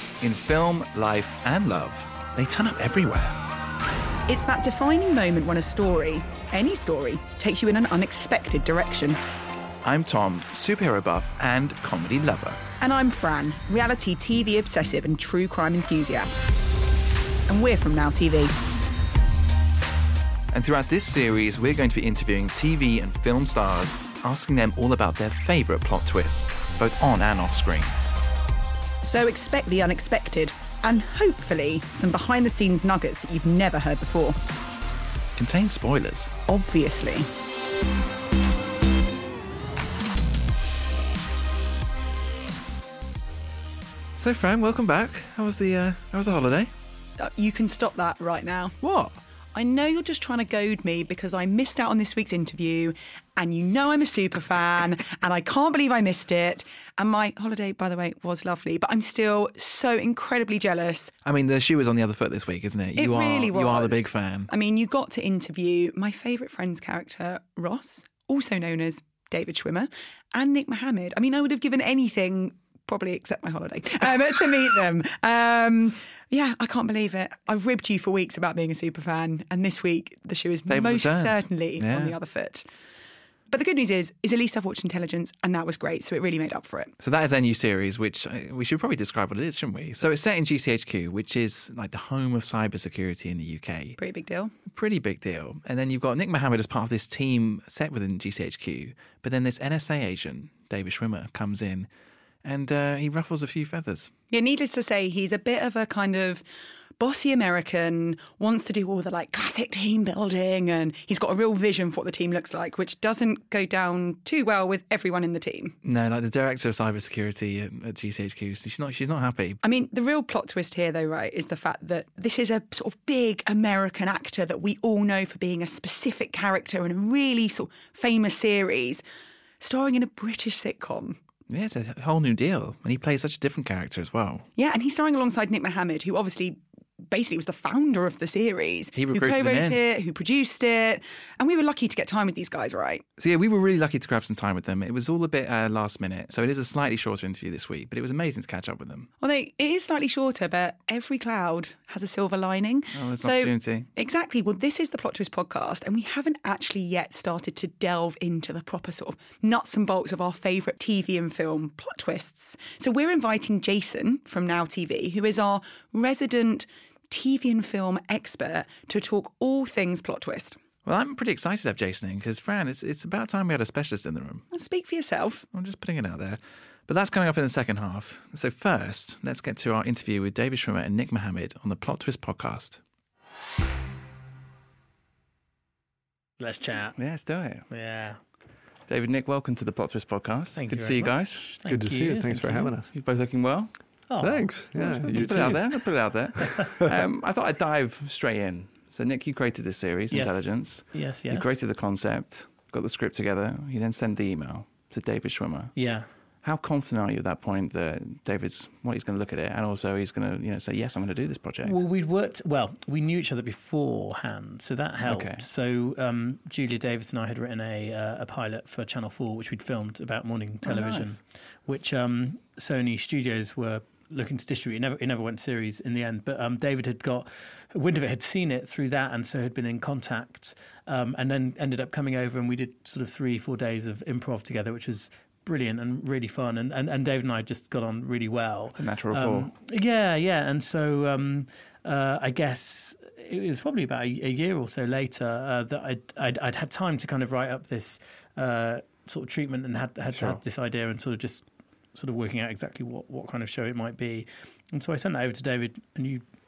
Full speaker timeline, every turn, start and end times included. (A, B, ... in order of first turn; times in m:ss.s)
0:00.2-0:03.4 A
0:04.3-0:09.2 B
0:09.8-0:12.6 A
0:12.8-0:16.5 B
0:17.5-0:18.6 B
0:20.5-0:27.9 A
0:29.0-0:34.4 B
0:35.3-0:36.3 A
0:36.4-0:37.3 B
0:44.2-0:46.7 A
0:47.2-0:48.8 B
0:48.8-0:49.2 A
0:49.5-1:01.1 B
1:01.2-1:04.5 A
1:03.0-1:22.7 B
1:20.7-1:22.1 A
1:23.5-1:26.9 B
1:27.0-1:34.0 A
1:34.0-1:34.5 B
1:34.7-1:41.9 A
1:42.4-1:44.1 A
1:44.3-1:46.4 B
1:47.0-1:55.8 B
1:55.8-1:59.6 A
1:59.6-2:09.0 B
2:09.6-2:11.2 B
2:11.5-2:14.5 A
2:14.6-2:23.0 B
2:18.9-2:19.8 A
2:23.2-2:29.1 A
2:29.2-2:50.6 B
2:32.9-2:33.9 A
2:50.8-2:54.4 A
2:54.5-2:55.4 B
2:55.5-3:02.8 A
3:06.4-3:07.0 C
3:07.0-3:07.6 A
3:07.7-3:08.2 C
3:08.9-3:11.5 A
3:10.6-3:12.7 C
3:11.6-3:12.9 D
3:12.9-3:13.7 A
3:14.1-3:15.6 C
3:14.2-3:15.7 D
3:15.0-3:25.7 A
3:20.1-3:21.5 C
3:25.8-3:26.1 C
3:26.4-3:31.8 A
3:31.6-4:16.2 C
3:35.0-3:35.4 A
3:40.6-3:41.2 A
3:58.8-3:59.5 A
4:10.1-4:10.4 A